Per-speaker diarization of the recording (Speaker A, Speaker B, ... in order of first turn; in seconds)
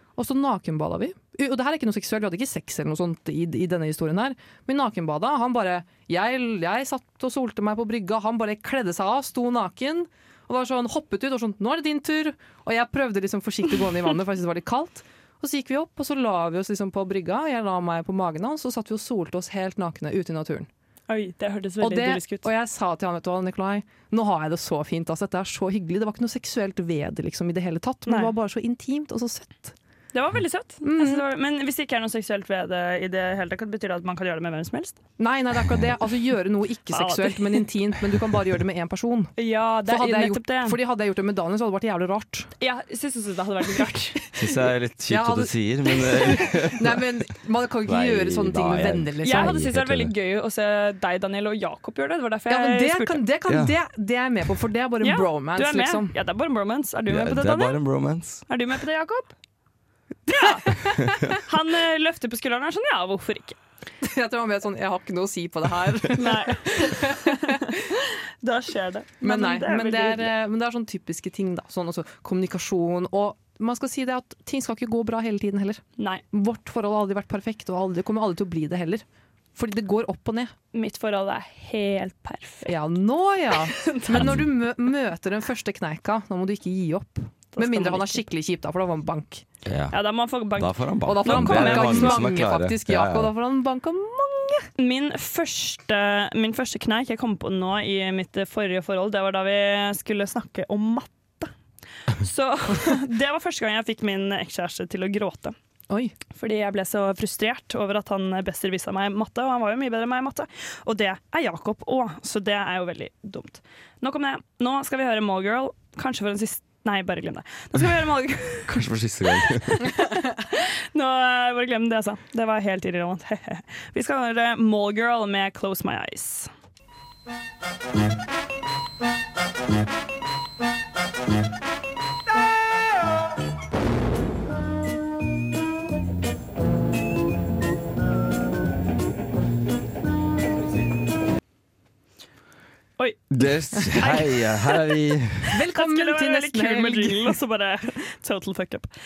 Speaker A: 0.1-20.7, 21.8-29.8, 30.8-31.2, 35.2-39.3, 39.9-42.5, 45.1-49.6, 52.5-56.2, 64.0-67.6, 69.2-75.8, 76.3-79.0, 79.5-80.5, 82.6-89.4, 91.0-94.7, 105.9-106.1, 145.5-147.4
Speaker B: 21.1-22.5, 30.1-35.0, 36.9-37.6, 39.4-40.8, 42.6-44.3, 49.2-53.2, 55.0-57.8, 58.5-59.3, 60.3-63.5, 66.2-70.3, 80.7-82.7, 83.8-84.4, 87.5-88.2, 89.9-92.3, 94.8-101.5, 102.2-105.5, 106.3-118.8, 119.4-126.5, 143.9-144.8, 145.7-148.9
Speaker C: 44.4-47.0, 47.9-50.1, 53.5-53.7, 57.1-58.4, 84.1-84.5, 89.6-90.0, 90.5-93.3, 118.7-119.9, 143.3-145.4